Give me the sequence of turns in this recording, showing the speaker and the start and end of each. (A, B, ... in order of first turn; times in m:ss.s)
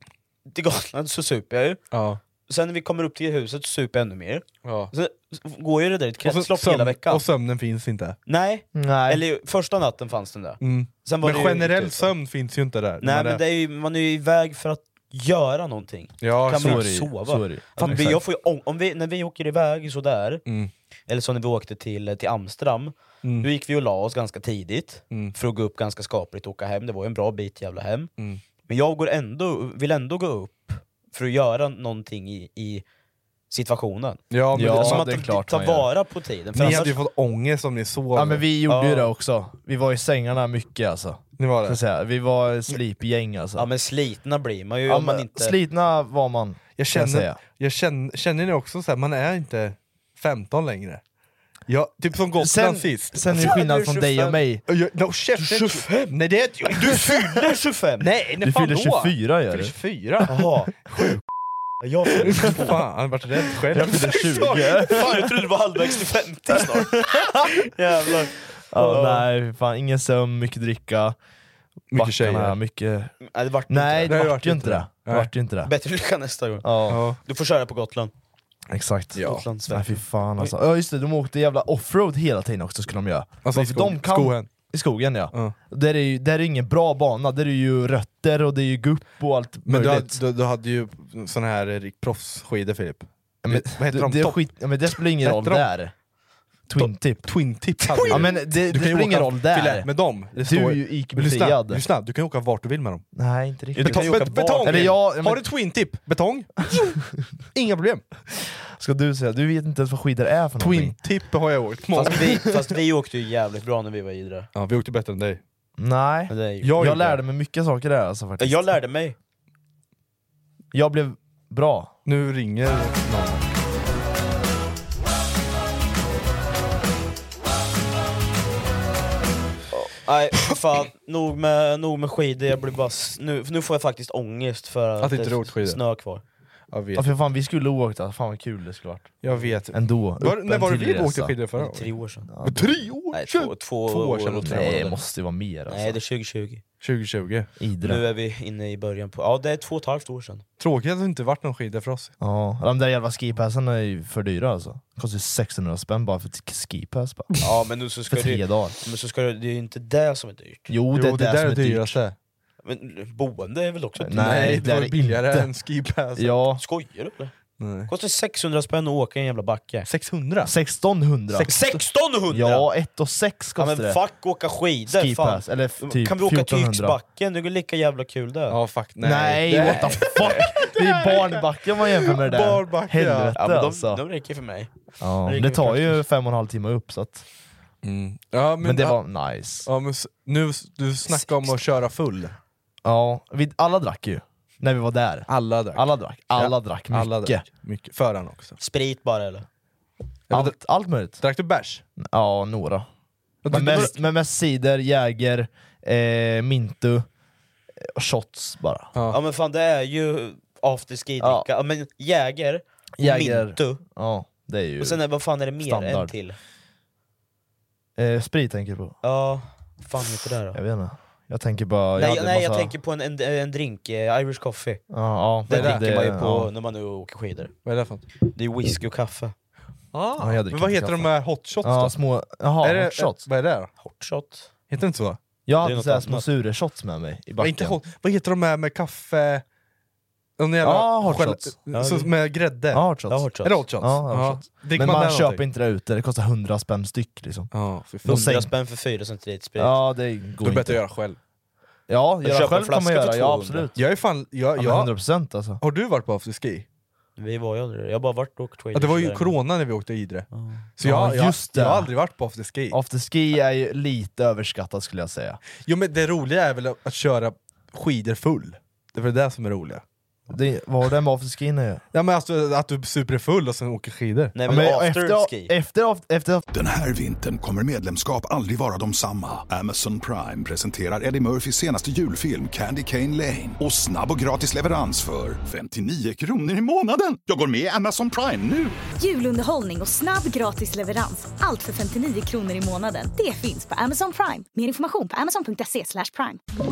0:00.5-0:01.8 A
0:01.9-0:02.2 B
0:02.5-0:07.2 A
0:04.6-0:04.9 B
0:06.2-0:08.2 B
0:08.3-0:12.1 A
0:08.8-0:09.2 C
0:10.6-0:13.4 B
0:13.0-0:20.4 A
0:16.2-0:16.9 B
0:16.5-0:18.2 C
0:17.8-0:18.2 B
0:21.1-0:28.1 A
0:28.7-0:32.8 A
0:33.5-0:37.0 A
0:34.3-0:35.1 B
0:34.5-0:35.9 C
0:36.6-0:38.5 B
0:38.1-0:43.7 C
0:38.7-0:39.1 A
0:41.4-0:41.8 B
0:43.6-0:45.6 A
0:44.9-0:47.4 C
0:46.8-0:51.0 B
0:51.7-0:57.4 B
0:52.4-0:54.6 C
0:53.4-0:53.6 A
0:55.4-0:56.1 A
0:56.6-0:58.1 A
0:58.0-1:01.2 B
0:58.4-0:59.8 C
1:00.3-1:00.7 A
1:01.8-1:02.8 A
1:02.2-1:05.3 B
1:03.7-1:05.3 C
1:04.7-1:09.2 A
1:06.6-1:07.6 C
1:08.7-1:11.2 C
1:08.8-1:09.2 B
1:11.9-1:12.6 B
1:11.9-1:13.1 C
1:13.2-1:14.3 A
1:13.7-1:15.7 C
1:14.1-1:15.3 B
1:15.6-1:18.1 A
1:16.6-1:17.1 C
1:16.9-1:17.2 B
1:18.7-1:30.2 C
1:19.2-1:19.4 B
1:19.2-1:20.5 A
1:23.4-1:24.5 B
1:29.7-1:34.4 B
1:33.4-1:35.9 C
1:35.2-1:35.7 B
1:36.7-1:37.3 C
1:36.8-1:43.1 B
1:37.8-1:38.3 A
1:38.0-1:41.8 C
1:43.1-1:45.5 C
1:43.8-1:47.0 B
1:43.8-1:45.0 A
1:47.5-1:48.1 B
1:48.8-1:51.0 C
1:50.6-1:52.5 B
1:51.9-1:54.5 A
1:54.6-1:55.4 B
1:55.8-1:58.7 C
1:56.3-1:57.0 A
1:56.6-1:57.2 B
1:58.4-1:59.2 A
2:00.7-2:01.9 C
2:02.1-2:03.5 B
2:09.7-2:16.2 A
2:15.0-2:15.8 B
2:16.7-2:17.1 B
2:17.0-2:19.2 C
2:19.2-2:21.9 B
2:19.7-2:21.3 C
2:21.6-2:22.3 A
2:22.3-2:22.8 C
2:22.4-2:24.9 B
2:23.1-2:25.0 A
2:24.4-2:26.0 C
2:25.7-2:26.6 A
2:26.8-2:27.5 B
2:27.6-2:28.0 C
2:27.8-2:30.4 A
2:30.6-2:32.1 B
2:32.2-2:37.3 C
2:37.4-2:40.7 A
2:38.1-2:38.8 C
2:40.7-2:42.0 C
2:40.9-2:42.2 B
2:42.6-2:44.6 A
2:44.0-2:45.5 C
2:44.2-2:46.4 B
2:46.2-2:46.6 C
2:46.6-2:47.3 A
2:47.6-2:47.9 B
2:47.9-2:49.9 A
2:49.9-2:50.5 B
2:50.4-2:51.6 C
2:51.3-2:51.8 B
2:51.4-2:52.7 A
2:52.3-2:54.0 C
2:53.6-2:58.6 A
2:54.9-2:57.0 C
2:58.5-3:01.4 B
2:59.0-3:04.0 C
3:00.2-3:00.5 A
3:02.0-3:03.4 B
3:03.4-3:04.7 A
3:05.0-3:07.2 C
3:05.2-3:06.0 A
3:07.8-3:09.0 B
3:08.6-3:09.7 C
3:09.6-3:12.4 B
3:11.0-3:11.6 A
3:12.8-3:17.4 C
3:15.3-3:18.6 B
3:18.6-3:19.5 A
3:20.3-3:20.6 B
3:20.3-3:21.2 C
3:21.2-3:21.8 B
3:22.0-3:22.9 C
3:23.4-3:24.0 B
3:23.5-3:27.1 C
3:27.8-3:28.9 C
3:29.1-3:33.8 A
3:31.2-3:31.5 C
3:33.0-3:35.0 C
3:34.8-3:36.4 A
3:35.6-3:36.1 C
3:38.0-3:39.0 C
3:39.0-3:40.6 A
3:40.5-3:42.7 C
3:42.0-3:44.8 A
3:44.9-3:46.5 C
3:45.5-3:47.5 A
3:45.5-3:45.8 B
3:47.6-3:48.0 B
3:48.3-3:49.3 A
3:49.9-3:52.0 B
3:50.2-3:53.2 C
3:52.6-3:53.7 B
3:53.8-3:54.5 A
3:54.7-3:55.2 B
3:55.5-3:57.8 C
3:55.6-3:56.3 A
3:57.4-3:59.4 B
4:00.4-4:02.8 B
4:00.6-4:01.6 C
4:01.7-4:02.1 A
4:02.7-4:07.5 C
4:03.1-4:03.6 A
4:03.4-4:05.4 B
4:07.5-4:08.4 B
4:08.0-4:08.5 C
4:08.1-4:09.8 A
4:09.6-4:10.8 C
4:10.4-4:11.2 B
4:11.9-4:13.8 C
4:12.2-4:13.7 A
4:13.8-4:14.9 B
4:14.6-4:15.6 C
4:15.6-4:16.6 B
4:17.2-4:19.4 A
4:18.8-4:22.8 B
4:20.3-4:20.6 A
4:20.8-4:21.9 C
4:22.7-4:25.4 C
4:25.6-4:29.8 B
4:30.3-4:31.8 C
4:31.9-4:34.4 B
4:34.4-4:35.5 A
4:34.5-4:36.4 C
4:36.5-4:48.8 D
4:49.0-4:56.4 E